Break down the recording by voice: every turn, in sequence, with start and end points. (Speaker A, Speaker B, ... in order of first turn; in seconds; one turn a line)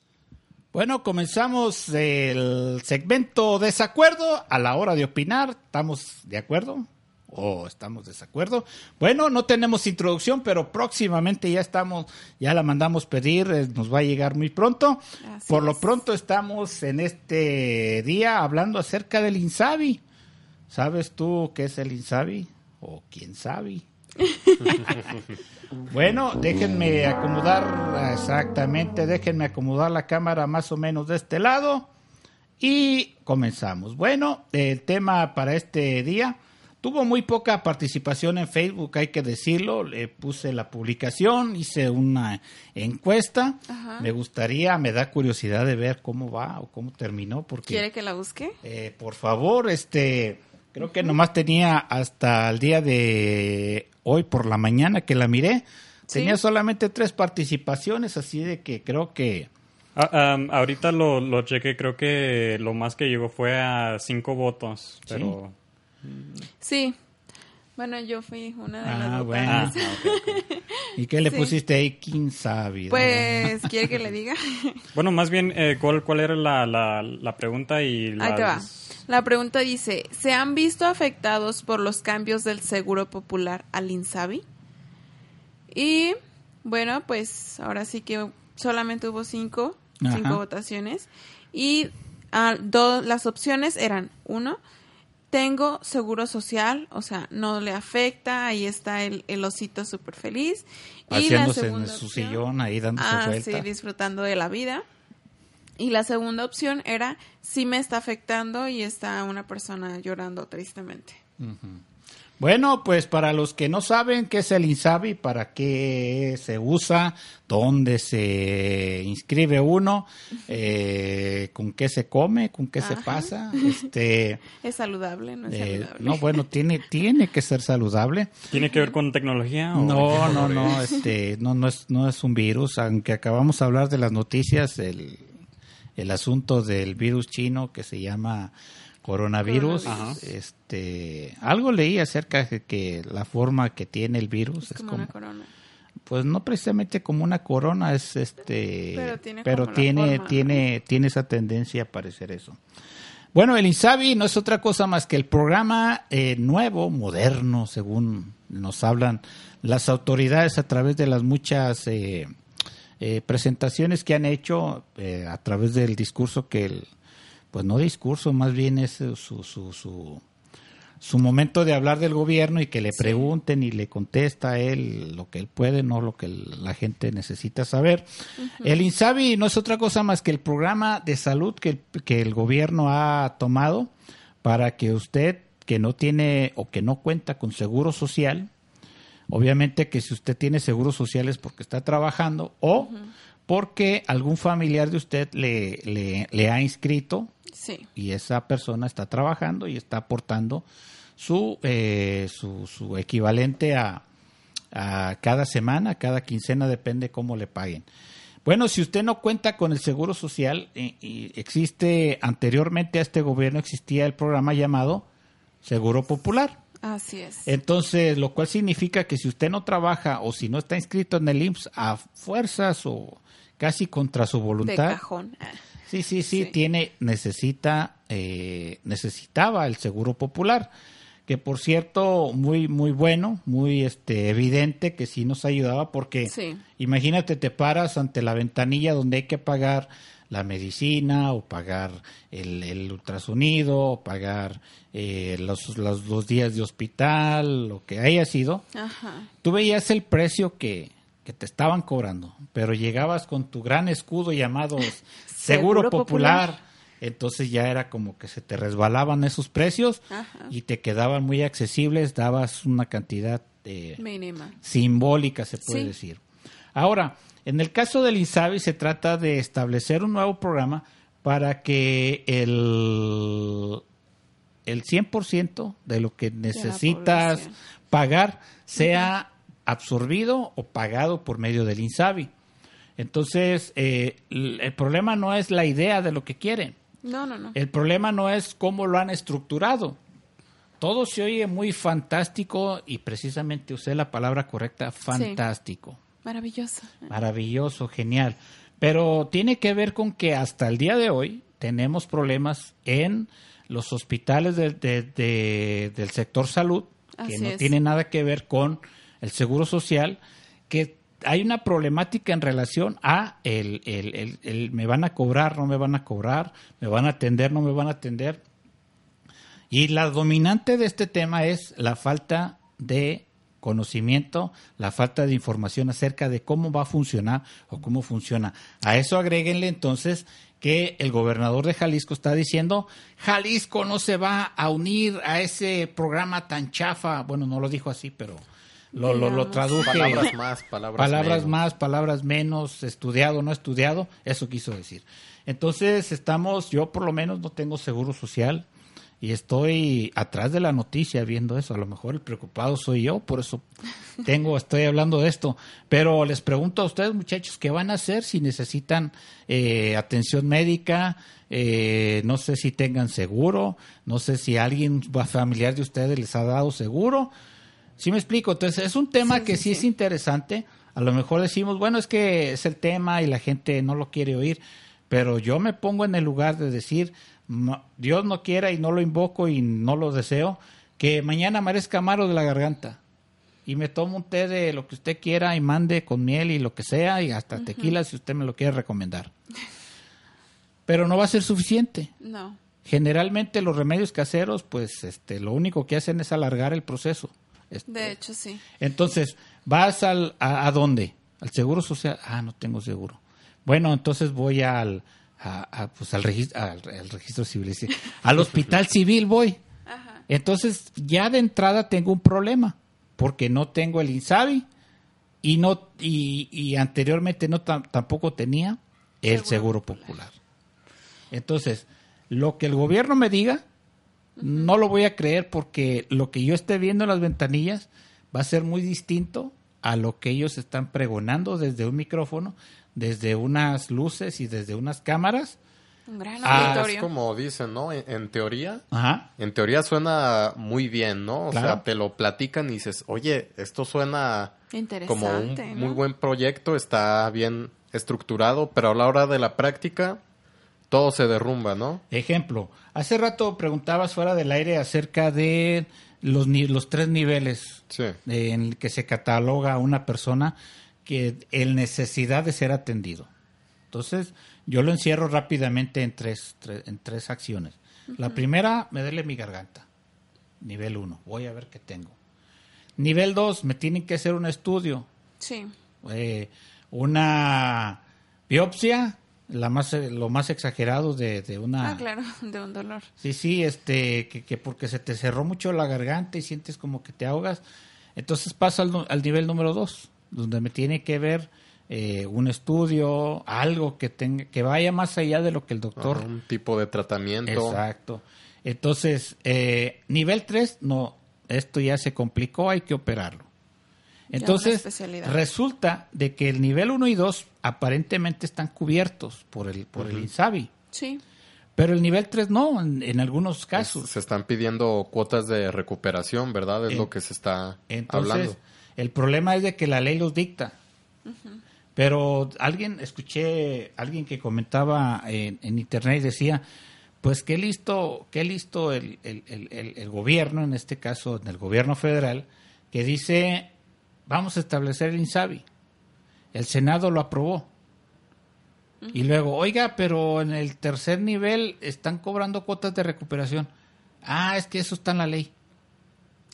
Speaker A: 0.7-20.0
Speaker B: 15.2-15.8
Speaker A: 20.7-23.8
Speaker B: 24.2-24.9
Speaker A: 25.9-31.9
Speaker A: 32.6-47.8
Speaker B: 43.7-44.1
Speaker B: 47.7-48.5
Speaker A: 48.6-59.5
Speaker B: 56.1-56.4
Speaker C: 59.9-66.4
Speaker A: 65.1-65.3
Speaker B: 66.6-67.0
Speaker B: 67.8-70.6
Speaker A: 68.8-70.2
Speaker C: 69.5-70.3
Speaker A: 71.0-73.7
Speaker B: 71.3-71.5
Speaker B: 72.9-74.8
Speaker C: 74.9-78.8
Speaker B: 78.2-84.4
Speaker B: 85.7-94.6
Speaker A: 90.0-90.4
Speaker B: 95.3-102.4
Speaker A: 101.1-103.7
Speaker B: 103.0-104.8
Speaker B: 105.8-111.2
Speaker A: 111.4-111.8
Speaker A: 112.4-124.4
Speaker B: 122.8-123.8
Speaker B: 124.5-126.4
Speaker A: 125.5-128.3
Speaker B: 128.5-128.9
Speaker C: 128.5-130.8
Speaker A: 129.7-135.3
Speaker B: 130.6-131.0
Speaker A: 136.0-145.1
Speaker B: 139.4-140.2
Speaker C: 139.8-140.2
Speaker B: 144.6-145.5
Speaker A: 146.1-152.6
Speaker B: 148.9-150.6
Speaker A: 153.3-162.3
Speaker A: 163.0-166.9
Speaker A: 167.5-170.2
Speaker A: 171.0-178.1
Speaker B: 172.9-173.3
Speaker B: 178.4-178.8
Speaker A: 178.6-183.9
Speaker A: 184.4-188.5
Speaker A: 189.3-192.9
Speaker B: 192.7-193.1
Speaker A: 193.5-197.3
Speaker B: 197.5-197.9
Speaker A: 197.9-200.7
Speaker A: 201.2-204.0
Speaker A: 204.7-207.9
Speaker A: 208.4-215.1
Speaker A: 215.6-216.6
Speaker B: 216.8-217.5
Speaker A: 217.4-225.0
Speaker B: 224.6-225.6
Speaker A: 225.9-230.7
Speaker A: 231.3-248.6
Speaker B: 236.2-236.6
Speaker B: 248.7-249.3
Speaker A: 249.4-264.0
Speaker B: 255.3-256.4
Speaker B: 260.1-260.5
Speaker B: 264.0-264.6
Speaker A: 264.6-266.2
Speaker B: 265.6-265.9
Speaker A: 266.7-273.8
Speaker A: 274.6-282.3
Speaker B: 276.5-277.5
Speaker A: 283.0-286.8
Speaker B: 287.0-287.6
Speaker A: 287.5-290.0
Speaker A: 290.8-296.0
Speaker B: 295.1-295.4
Speaker B: 296.2-297.1
Speaker A: 297.1-318.4
Speaker B: 307.2-307.7
Speaker A: 319.7-340.3
Speaker B: 338.9-340.3
Speaker D: 339.8-341.6
Speaker A: 340.9-348.6
Speaker A: 349.2-353.6
Speaker A: 354.2-367.3
Speaker A: 368.0-383.0
Speaker B: 369.2-369.8
Speaker A: 383.6-389.3
Speaker B: 387.6-387.9
Speaker A: 390.9-392.1
Speaker B: 392.2-392.6
Speaker A: 392.8-398.1
Speaker B: 397.9-398.6
Speaker A: 398.8-409.6
Speaker B: 409.9-410.2
Speaker A: 410.3-414.6
Speaker A: 415.4-420.3
Speaker B: 419.3-420.1
Speaker A: 421.3-423.6
Speaker B: 424.4-424.7
Speaker A: 424.4-435.6
Speaker B: 436.1-437.1
Speaker A: 436.4-436.9
Speaker D: 436.5-438.8
Speaker A: 438.9-439.3
Speaker D: 439.4-444.5
Speaker A: 441.5-441.8
Speaker B: 444.7-446.0
Speaker D: 445.1-450.2
Speaker D: 450.9-452.0
Speaker A: 452.1-463.3
Speaker D: 457.9-458.2
Speaker A: 463.9-469.9
Speaker A: 470.6-472.1
Speaker A: 473.0-475.1
Speaker B: 475.4-475.7
Speaker A: 476.0-482.0
Speaker B: 481.8-483.1
Speaker A: 483.2-487.6
Speaker A: 488.1-496.3
Speaker D: 496.0-497.8
Speaker A: 497.4-503.5
Speaker A: 504.3-510.7
Speaker B: 504.3-505.4
Speaker D: 510.0-510.2
Speaker B: 510.9-511.2
Speaker A: 511.8-514.1
Speaker D: 513.8-518.6
Speaker A: 517.9-520.7
Speaker B: 521.2-521.6
Speaker A: 522.0-526.6
Speaker A: 527.2-533.7
Speaker A: 534.3-535.6
Speaker A: 536.5-537.7
Speaker A: 539.1-543.7
Speaker A: 544.2-545.5